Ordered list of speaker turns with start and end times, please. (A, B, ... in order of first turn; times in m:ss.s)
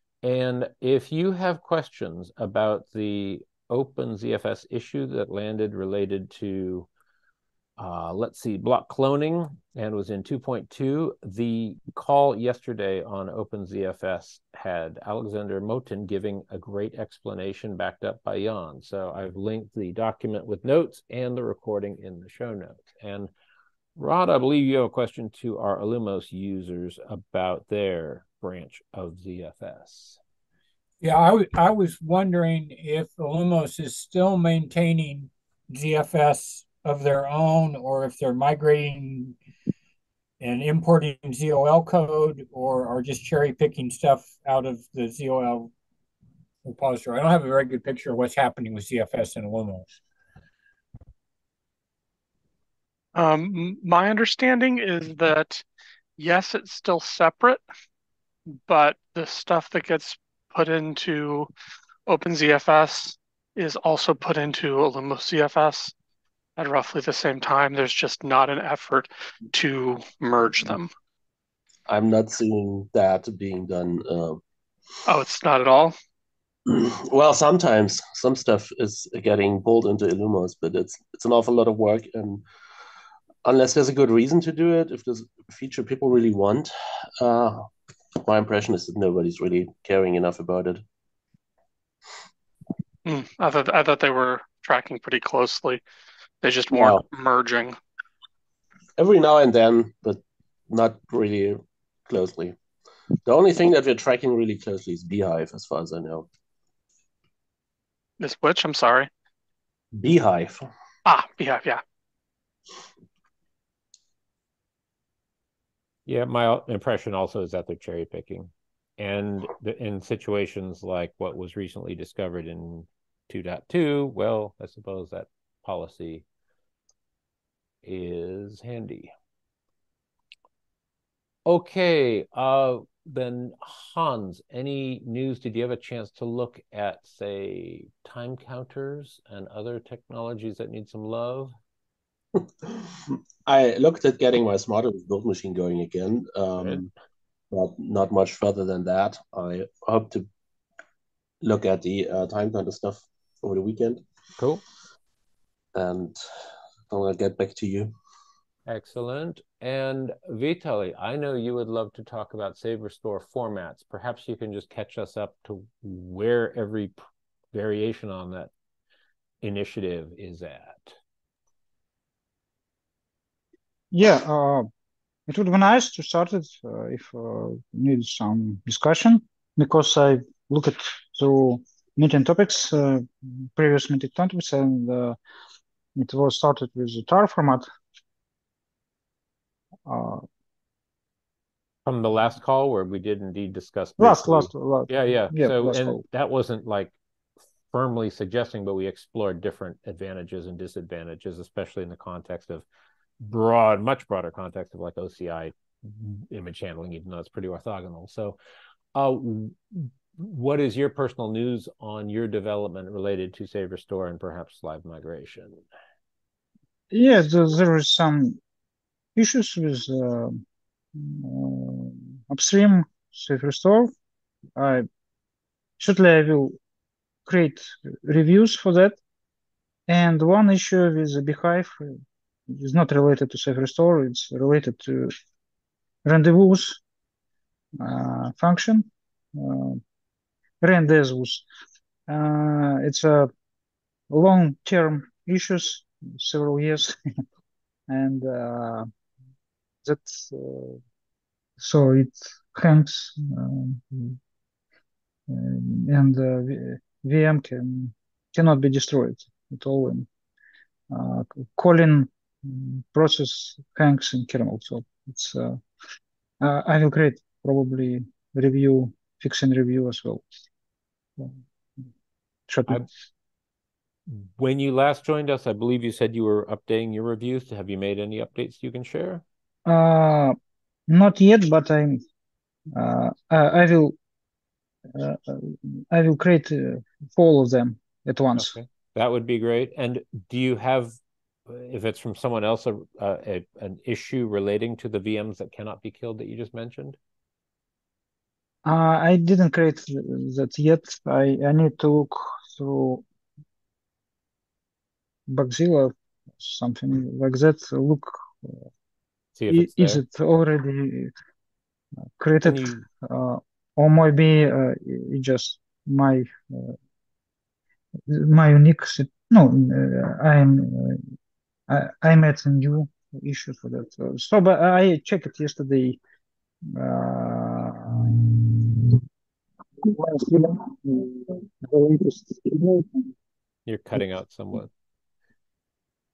0:00.2-0:06.9 A
0:07.8-0:23.3 A
0:24.0-0:30.2 A
0:31.0-0:39.4 B
0:40.4-0:45.7 B
0:46.6-0:49.9 B
0:53.1-0:55.6 C
0:56.2-0:57.6 C
0:58.7-1:01.5 C
1:02.1-1:05.9 C
1:06.6-1:10.9 C
1:11.9-1:14.4 D
1:15.0-1:15.9 C
1:16.7-1:22.4 D
1:23.4-1:27.7 D
1:28.2-1:30.8 D
1:33.0-1:35.8 C
1:36.4-1:37.8 C
1:36.7-1:37.0 D
1:39.0-1:42.5 D
1:43.2-1:46.3 D
1:48.2-1:49.1 C
1:50.0-1:50.6 D
1:51.0-1:51.8 C
1:56.1-2:06.2 A
2:07.8-2:09.1 A
2:11.4-2:21.5 A
2:22.4-2:22.9 D
2:23.4-2:26.9 D
2:27.5-2:30.3 D
2:31.4-2:34.0 D
2:35.7-2:36.2 D
2:36.9-2:37.9 D
2:38.6-2:47.0 A
2:47.5-2:48.5 A
2:49.4-2:50.9 A
2:53.9-2:54.7 E
2:55.3-3:05.2 E
3:06.0-3:07.6 E
3:09.8-3:10.2 E
3:11.8-3:16.9 A
3:14.0-3:16.0 E
3:17.7-3:22.6 A
3:23.2-3:28.4 A
3:28.9-3:35.6 A
3:36.9-3:38.4 E
3:39.2-3:40.4 E
3:41.0-3:43.9 E
3:44.6-3:44.9 E
3:45.8-3:46.6 E
3:47.2-3:49.0 E
3:49.9-3:51.9 E
3:52.5-3:55.1 E
3:56.0-3:56.8 E
3:57.8-3:59.8 E
4:00.6-4:01.4 E
4:02.1-4:03.3 E
4:04.1-4:06.9 E
4:07.9-4:08.9 E
4:09.8-4:10.8 E
4:11.6-4:14.2 E
4:15.3-4:20.1 E
4:20.9-4:25.6 E
4:26.4-4:30.2 E
4:32.5-4:32.8 E
4:34.1-4:39.2 A
4:39.6-4:40.4 E
4:40.9-4:42.0 E
4:42.7-4:43.9 E
4:44.9-4:48.5 E
4:48.3-4:51.0 A
4:51.5-4:57.0 A
4:58.6-5:03.0 E
5:05.3-5:08.5 E
5:09.4-5:10.0 A
5:09.5-5:11.1 E
5:12.2-5:16.7 E
5:12.4-5:12.8 A
5:18.1-5:21.0 E
5:21.7-5:26.0 E
5:26.7-5:29.0 E
5:29.8-5:33.0 E
5:33.6-5:34.7 A